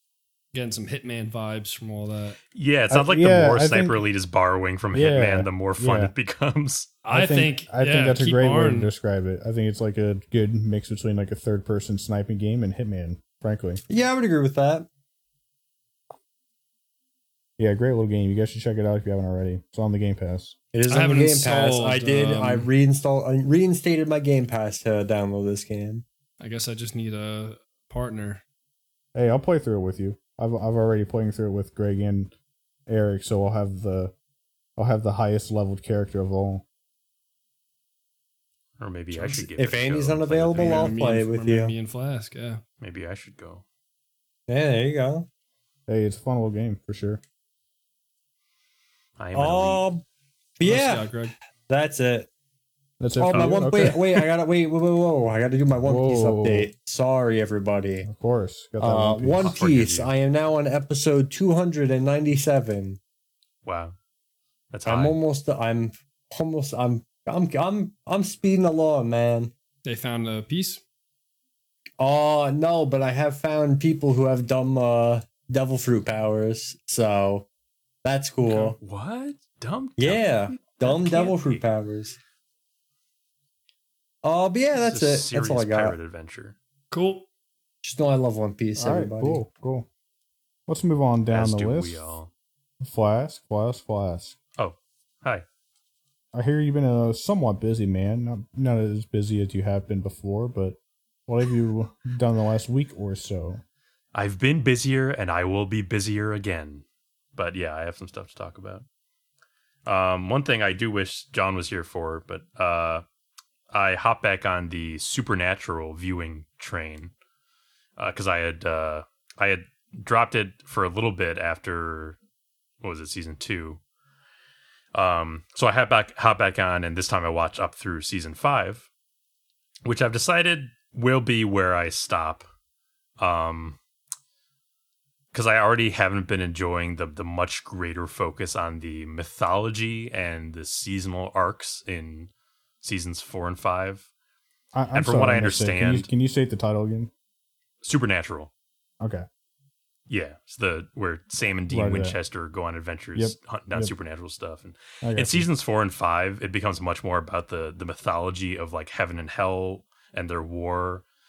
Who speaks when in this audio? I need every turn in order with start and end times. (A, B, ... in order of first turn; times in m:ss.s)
0:00.5-0:02.4 A
0:02.5-0:07.0 B
0:02.9-0:04.0 C
0:04.9-0:06.1 C
0:07.0-0:08.9 A
0:07.1-0:13.8 C
0:13.9-0:14.9 D
0:17.6-0:20.6 C
0:20.7-0:26.0 D
0:20.9-0:22.7 A
0:26.4-0:28.4 A
0:29.1-0:32.3 C
0:32.9-0:34.1 C
0:34.8-0:36.6 C
0:38.8-0:41.0 B
0:39.1-0:41.7 D
0:40.6-0:42.6 A
0:42.8-0:43.6 B
0:44.5-0:45.3 D
0:45.9-0:47.2 C
0:49.2-0:49.9 B
0:49.3-0:50.0 D
0:50.6-0:51.1 D
0:50.6-0:51.4 A
0:51.7-0:52.3 D
0:53.0-0:54.3 C
0:53.2-0:58.1 D
0:55.8-0:56.7 C
0:58.1-0:59.5 C
0:58.8-1:03.0 D
0:59.4-1:00.1 B
1:03.6-1:04.0 B
1:04.7-1:05.2 B
1:04.9-1:09.5 D
1:09.8-1:10.8 A
1:12.0-1:17.5 D
1:18.0-1:18.8 D
1:18.5-1:18.7 A
1:18.8-1:21.6 B
1:20.0-1:22.2 D
1:24.2-1:26.0 D
1:24.8-1:26.6 B
1:26.9-1:27.3 A
1:27.8-1:29.4 D
1:28.8-1:29.9 C
1:30.7-1:32.2 C
1:31.3-1:32.3 B
1:32.8-1:34.4 C
1:34.6-1:35.4 B
1:36.3-1:43.6 C
1:44.1-1:46.8 B
1:47.4-1:48.8 B
1:49.8-1:53.0 B
1:53.7-1:57.1 B
1:58.0-2:02.2 B
2:02.8-2:03.8 B
2:04.9-2:08.9 B
2:09.8-2:12.4 B
2:13.2-2:13.8 B
2:15.3-2:22.3 B
2:22.8-2:24.1 B
2:24.7-2:27.1 C
2:24.9-2:26.1 B
2:27.8-2:28.5 B
2:29.0-2:29.3 C
2:30.1-2:41.0 B
2:31.7-2:32.2 C
2:33.2-2:33.9 C
2:35.0-2:35.5 C